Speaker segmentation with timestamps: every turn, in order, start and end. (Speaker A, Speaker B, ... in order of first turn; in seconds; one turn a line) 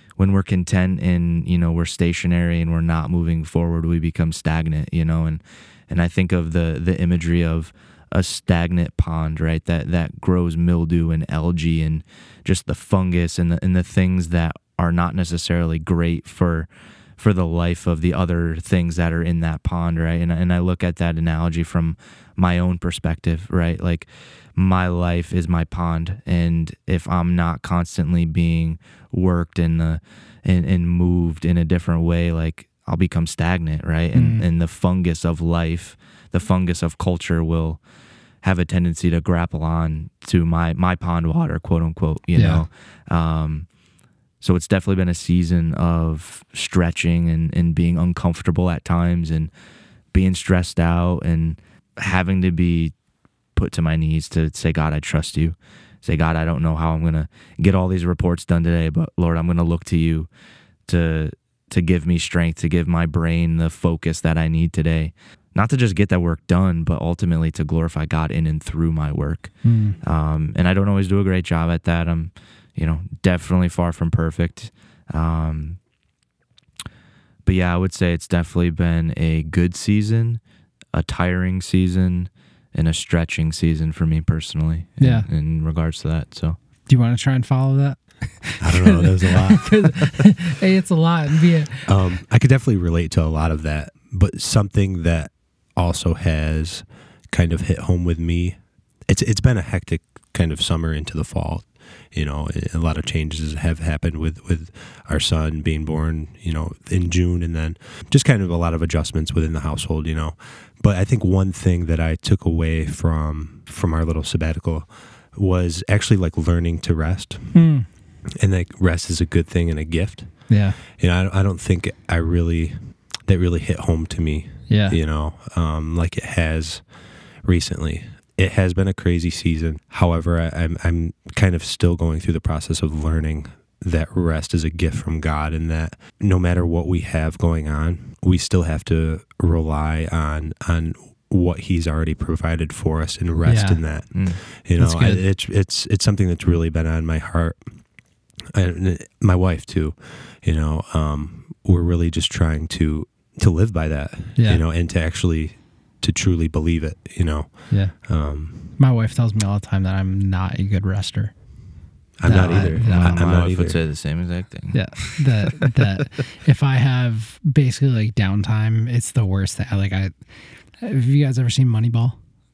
Speaker A: 0.2-37.8
Speaker B: 34.1-34.5
Speaker A: 38.4-43.7
Speaker B: 42.3-42.6
Speaker A: 44.4-49.5
Speaker A: 50.1-52.9
Speaker A: 53.5-60.3
Speaker A: 60.9-75.8
Speaker B: 69.6-70.0
Speaker A: 77.5-80.4
Speaker A: 80.9-86.6
Speaker B: 85.0-85.3
Speaker B: 86.9-91.9
Speaker C: 88.6-90.2
Speaker C: 91.8-117.7
Speaker B: 117.5-117.9
Speaker C: 118.4-126.9
Speaker B: 120.5-120.8
Speaker B: 124.7-125.0
Speaker C: 127.4-147.9
Speaker B: 143.4-144.2
Speaker A: 144.1-144.4
Speaker B: 144.8-145.2
Speaker C: 148.5-158.7
Speaker B: 154.3-154.6
Speaker B: 157.7-161.4
Speaker C: 162.2-163.8
Speaker B: 162.2-163.3
Speaker A: 162.4-165.3
Speaker B: 164.7-170.1
Speaker B: 170.8-172.2